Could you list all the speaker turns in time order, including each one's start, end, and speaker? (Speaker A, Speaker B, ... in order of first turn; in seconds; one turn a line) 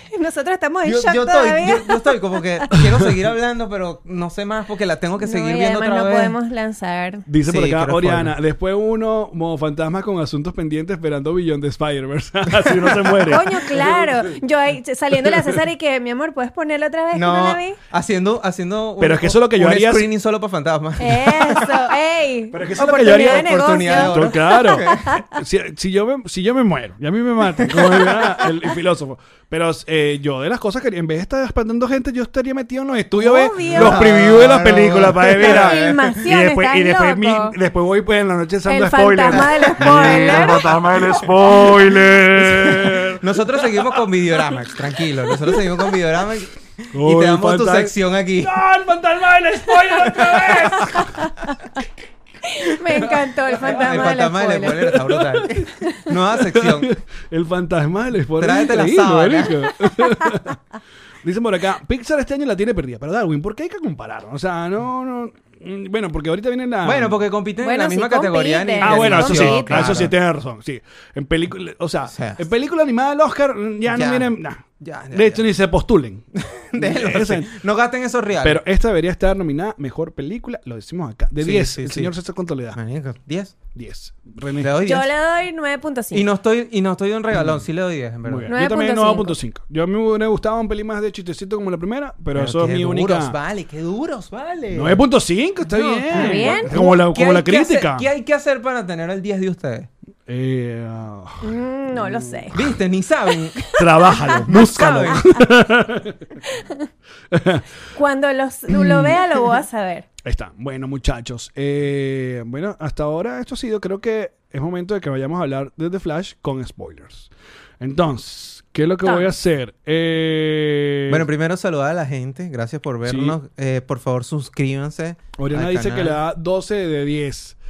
Speaker A: 0.1-2.4
Speaker B: 0.8-6.4
Speaker C: 2.7-3.1
Speaker A: 5.2-7.3
Speaker C: 7.3-14.3
Speaker B: 7.5-8.3
Speaker B: 12.5-13.4
Speaker A: 13.3-17.8
Speaker C: 15.3-15.5
Speaker B: 17.1-21.9
Speaker C: 19.0-20.1
Speaker A: 21.0-25.2
Speaker C: 22.5-44.0
Speaker B: 22.7-25.1
Speaker B: 27.6-28.5
Speaker A: 33.1-34.3
Speaker B: 33.6-36.2
Speaker A: 35.4-37.5
Speaker A: 38.7-40.8
Speaker B: 39.3-48.6
Speaker C: 46.9-51.3
Speaker B: 50.0-50.8
Speaker A: 50.1-51.5
Speaker A: 52.4-55.0
Speaker B: 53.6-56.9
Speaker C: 55.0-55.7
Speaker C: 56.5-60.6
Speaker B: 58.4-59.7
Speaker C: 61.2-67.2
Speaker B: 66.8-70.1
Speaker A: 67.6-70.1
Speaker C: 68.8-77.5
Speaker B: 72.1-72.5
Speaker B: 73.9-75.5
Speaker B: 76.4-78.6
Speaker C: 78.4-82.8
Speaker B: 81.4-82.1
Speaker B: 82.7-83.6
Speaker C: 83.7-84.7
Speaker B: 84.6-85.1
Speaker A: 84.8-86.3
Speaker B: 86.1-88.5
Speaker C: 88.2-93.4
Speaker A: 88.5-89.3
Speaker B: 92.3-95.0
Speaker C: 94.7-98.1
Speaker A: 95.7-96.7
Speaker B: 95.9-99.9
Speaker C: 100.3-102.7
Speaker A: 101.4-102.6
Speaker B: 102.5-103.6
Speaker A: 103.5-105.4
Speaker C: 103.7-106.2
Speaker B: 104.3-105.3
Speaker A: 106.4-106.9
Speaker C: 107.3-107.7
Speaker A: 107.9-110.1
Speaker C: 108.7-109.4
Speaker C: 110.2-121.3
Speaker A: 119.0-119.3
Speaker B: 121.1-126.2
Speaker C: 123.0-123.4
Speaker C: 125.4-127.6